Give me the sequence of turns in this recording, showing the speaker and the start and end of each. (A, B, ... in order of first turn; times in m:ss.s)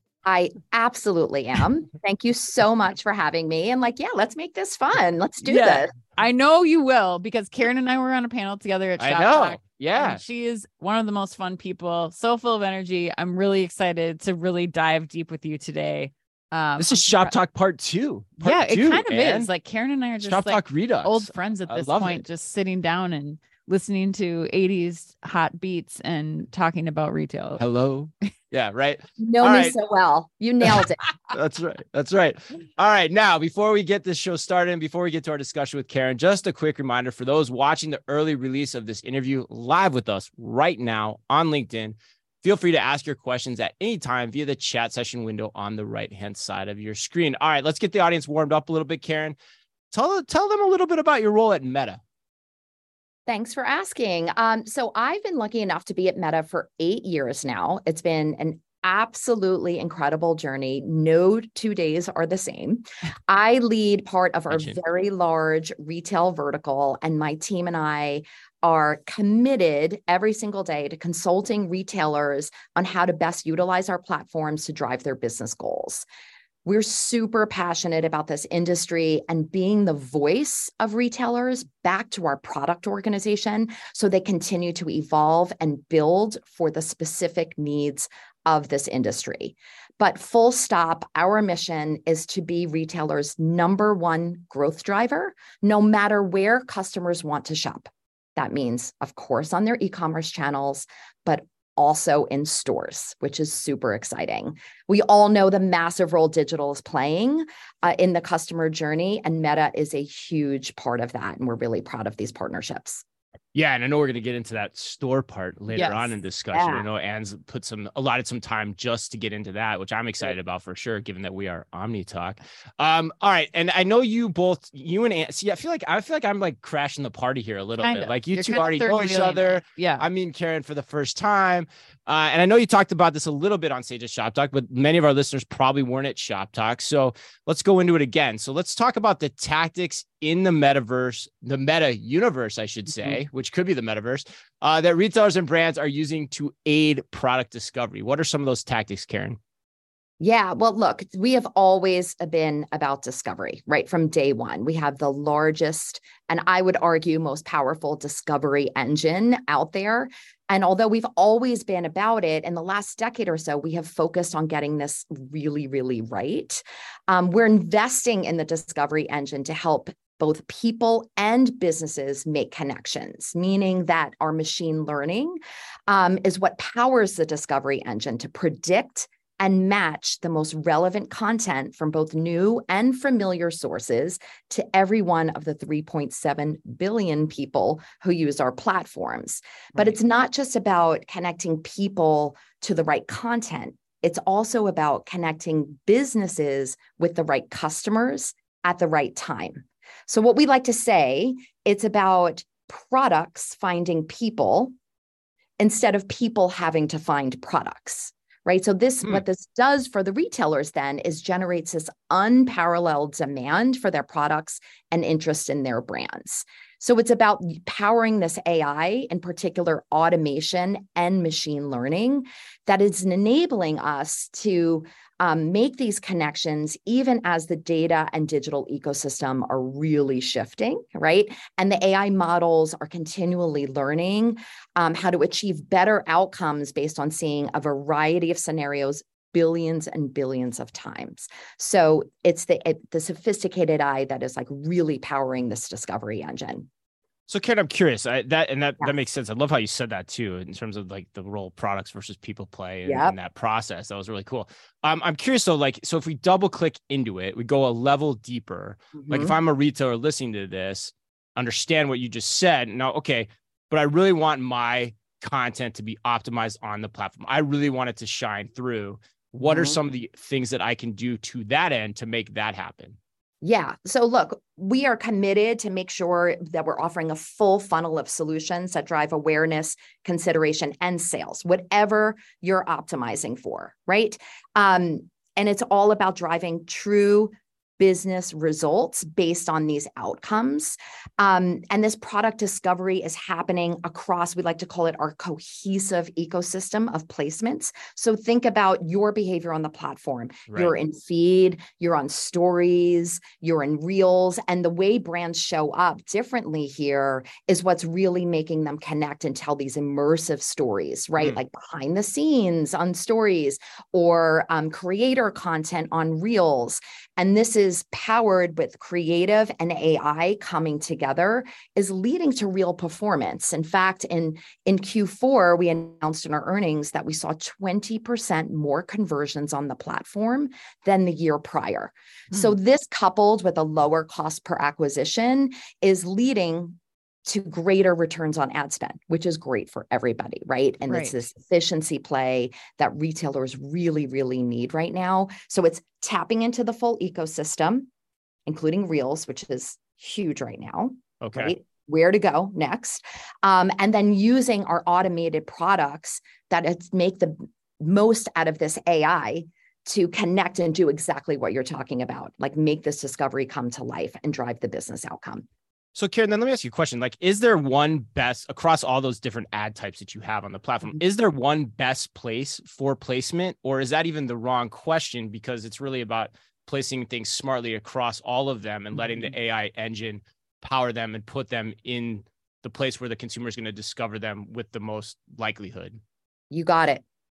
0:00.3-0:05.9 A
0:05.4-0:17.3 B
0:09.0-0:10.2 C
0:16.8-0:19.5 C
0:18.4-0:27.6 B
0:20.2-0:22.2 C
0:27.6-0:29.8 C
0:29.2-0:31.0 A
0:30.7-0:49.4 C
0:49.9-0:52.0 C
0:53.3-1:16.1 A
1:04.5-1:04.8 C
1:16.6-1:53.0 A
1:53.5-2:29.4 C
1:55.7-1:56.1 B
1:56.5-1:56.9 A
2:07.8-2:10.1 B
2:30.2-3:24.8 A
3:25.6-4:06.7 A
4:07.3-4:33.0 C
4:12.9-4:13.2 A
4:19.0-4:19.4 A
4:29.4-4:29.8 A
4:33.4-5:47.9 A
5:00.5-5:00.7 C
5:40.9-5:41.2 B
5:48.5-6:05.5 A
5:51.2-5:51.5 C
6:06.0-6:26.0 C
6:26.5-6:27.0 A